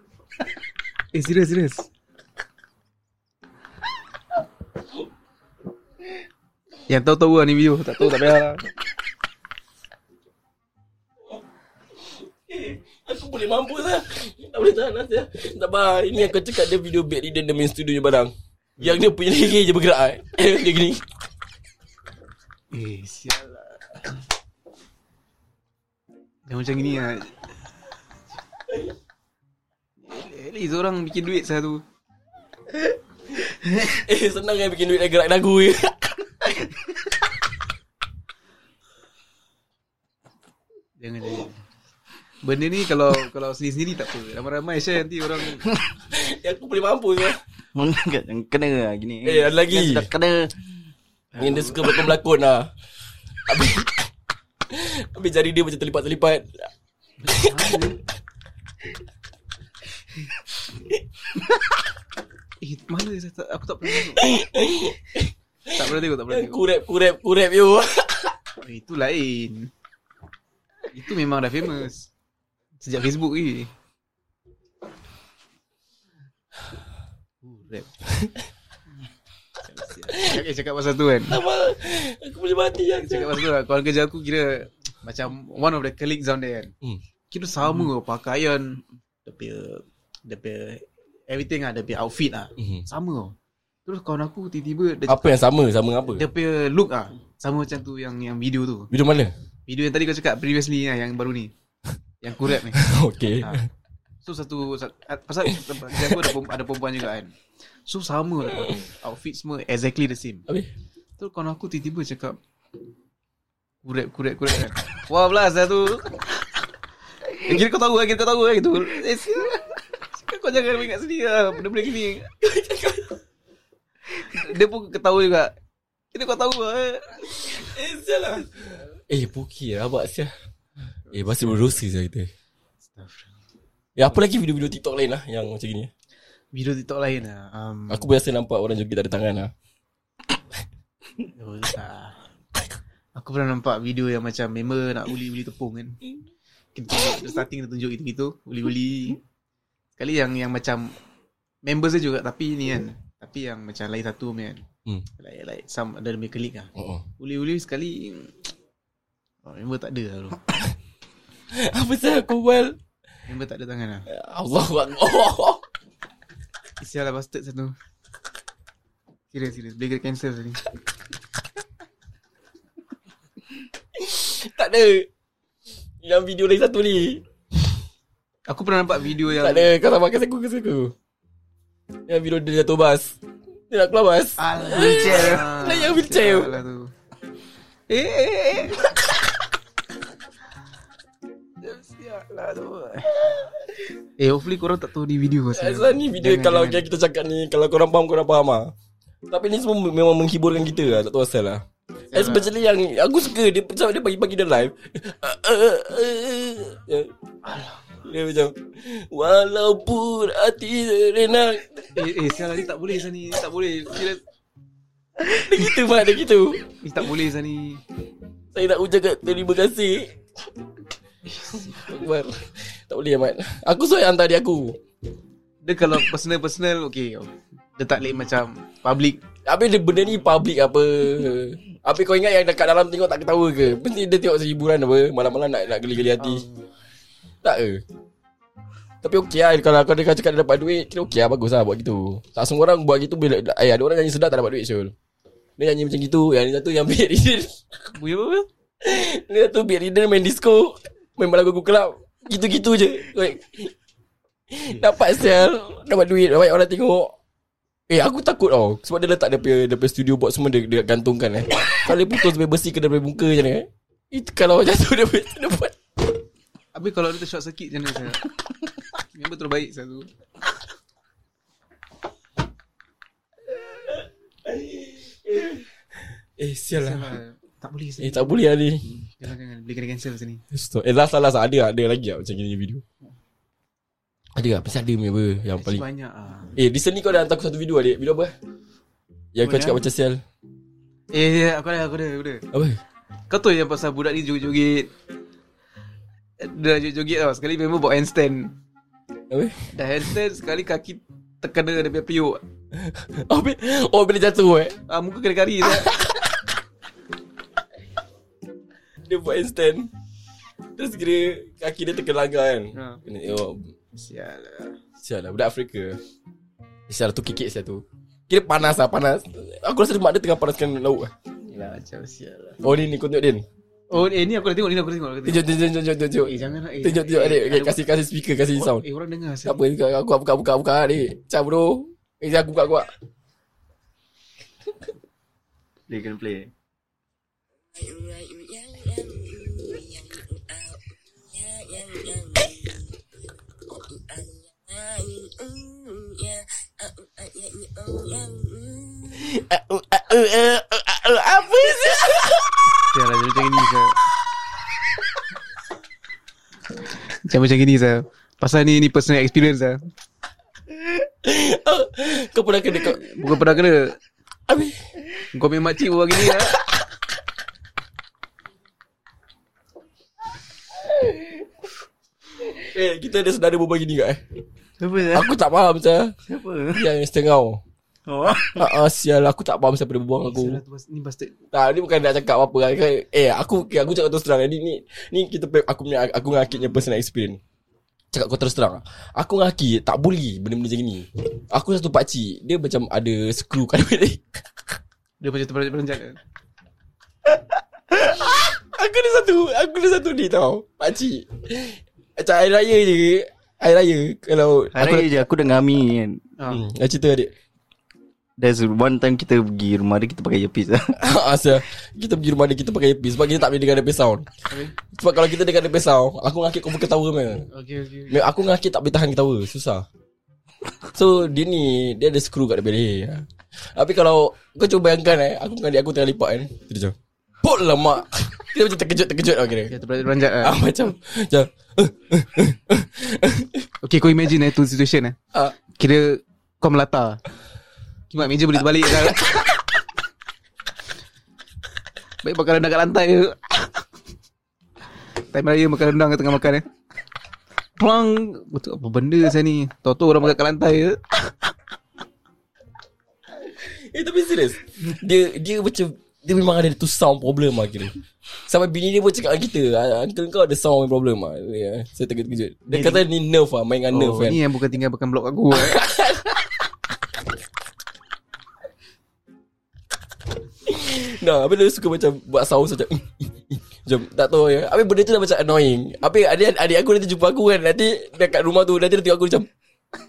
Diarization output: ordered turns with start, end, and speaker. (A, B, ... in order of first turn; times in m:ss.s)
0:01.1-0:01.9 A
0:06.9-0:08.6 A
0:12.5-0:21.1 B
0:22.7-0:23.8 A
0:26.5-0:27.4 A
0:30.0-0:31.8 A
0:33.7-0:36.2 B
0:41.0-0:41.6 A
0:42.4-0:45.6 A
0:46.1-0:47.4 B
0:47.8-0:50.6 C
0:49.2-0:50.1 B
0:51.4-0:51.8 A
0:51.4-0:52.7 B
0:53.4-0:54.1 B
0:54.7-0:56.7 B
0:57.2-0:58.0 A
0:57.3-0:57.8 B
1:02.6-1:04.3 A
1:04.2-1:05.3 B
1:05.7-1:06.6 A
1:06.3-1:08.4 B
1:08.6-1:09.7 A
1:10.9-1:12.1 A
1:12.8-1:13.7 A
1:17.4-1:17.9 A
1:19.6-1:21.4 A
1:20.1-1:20.4 B
1:21.3-1:23.4 B
1:23.0-1:26.7 A
1:27.3-1:33.4 A
1:32.6-1:32.8 B
1:33.9-1:35.4 A
1:35.1-1:36.3 B
1:36.2-1:38.9 A
1:38.9-1:39.3 B
1:39.7-1:41.5 A
1:42.2-1:42.8 A
1:42.7-1:43.7 B
1:44.2-1:50.5 A
1:45.9-1:46.3 B
1:51.2-1:52.4 A
1:53.8-1:56.6 A
1:57.4-2:02.3 A
2:02.4-2:03.1 B
2:04.2-2:05.5 A
2:06.1-2:07.6 A
2:07.6-2:08.6 B
2:09.1-2:10.3 B
2:11.1-2:11.8 A
2:11.1-2:12.3 B
2:12.9-2:13.3 A
2:14.0-2:15.9 B
2:16.5-2:18.1 A
2:17.9-2:19.5 B
2:21.4-2:22.2 A
2:23.2-2:26.0 A
2:26.8-2:29.2 A
2:30.0-2:30.9 A
2:31.7-2:34.6 A
2:35.2-2:38.4 A
2:36.8-2:37.0 B
2:39.4-2:40.4 A
2:41.6-2:42.8 B
2:43.3-2:44.1 A
2:44.1-2:45.6 B
2:46.8-2:47.8 A
2:49.3-2:50.6 A
2:54.0-2:55.1 B
2:56.0-2:57.2 B
2:58.5-2:59.7 A
2:59.4-3:00.9 B
3:02.1-3:03.2 B
3:03.7-3:06.6 B
3:04.4-3:06.9 A
3:04.8-3:05.4 C
3:07.9-3:09.2 A
3:11.6-3:13.3 A
3:14.2-3:16.8 A
3:15.6-3:18.7 B
3:19.3-3:21.6 B
3:22.1-3:22.5 A
3:22.1-3:27.1 B
3:27.4-3:27.8 A
3:28.0-3:32.4 B
3:32.0-3:34.2 A
3:35.3-3:36.7 B
3:36.8-3:37.8 A
3:38.5-3:40.1 B
3:41.3-3:41.7 A
3:41.6-3:44.7 B
3:45.6-3:49.2 A
3:49.4-3:56.4 B
3:56.2-3:56.6 A
3:57.4-3:57.8 B
3:59.0-4:04.9 B
4:05.6-4:07.6 B
4:08.0-4:08.5 A
4:08.8-4:13.7 B
4:14.5-4:17.1 B
4:17.9-4:25.8 B
4:26.7-4:28.3 A
4:29.0-4:30.1 A
4:34.5-4:35.6 B
4:36.4-4:37.1 B
4:36.8-4:40.4 A
4:38.0-4:38.9 B
4:40.5-4:42.8 B
4:44.4-4:45.8 B
4:45.6-4:46.6 A
4:46.6-4:48.3 B
4:49.4-4:50.2 B
4:49.4-4:49.8 A
4:51.1-4:52.4 A
4:52.5-4:52.8 B
4:53.3-4:54.9 A
4:56.4-4:58.5 A
4:59.3-4:59.6 B
4:59.7-5:02.4 A
5:02.8-5:04.8 B
5:04.9-5:05.9 A
5:05.8-5:06.4 B
5:09.1-5:09.9 B
5:10.8-5:13.7 B
5:12.7-5:13.0 A
5:14.0-5:14.8 A
5:15.0-5:16.0 B
5:16.9-5:21.1 B
5:21.5-5:22.6 A
5:22.6-5:23.4 B
5:23.9-5:25.4 A
5:25.2-5:28.8 B
5:26.2-5:27.8 A
5:28.6-5:29.6 A
5:29.4-5:32.9 B
5:35.9-5:36.5 C
5:37.8-5:40.3 B
5:41.5-5:42.5 B
5:44.8-5:46.4 B
5:47.4-5:48.2 B
5:49.0-5:52.7 B
5:52.9-5:54.0 A
5:57.1-5:59.8 A
6:01.1-6:03.2 B
6:02.8-6:04.0 A
6:04.5-6:04.8 B
6:05.3-6:06.6 A
6:12.5-6:14.2 B
6:14.8-6:15.3 C
6:15.1-6:16.2 B
6:16.3-6:16.8 C
6:16.7-6:17.6 B
6:18.1-6:18.7 C
6:18.4-6:20.6 B
6:20.3-6:21.3 A
6:21.5-6:27.4 B
6:28.1-6:34.4 B
6:35.2-6:36.2 A
6:38.2-6:45.1 B
6:44.7-6:46.2 C
6:46.5-6:47.3 B
6:48.4-6:50.9 C
6:51.0-6:54.3 B
6:54.8-6:57.5 B
6:57.5-6:58.2 A
6:58.1-6:59.8 B
7:00.9-7:09.7 B
7:09.7-7:10.6 A
7:10.4-7:13.7 B
7:13.8-7:15.2 A
7:15.7-7:17.2 A
7:18.1-7:19.6 A
7:18.8-7:19.4 B
7:22.2-7:23.8 A
7:25.3-7:26.7 A
7:27.8-7:31.5 A
7:33.6-7:44.4 B
7:42.7-7:43.0 A
7:43.9-7:45.8 A
7:45.6-7:46.4 B
7:50.7-7:59.5 B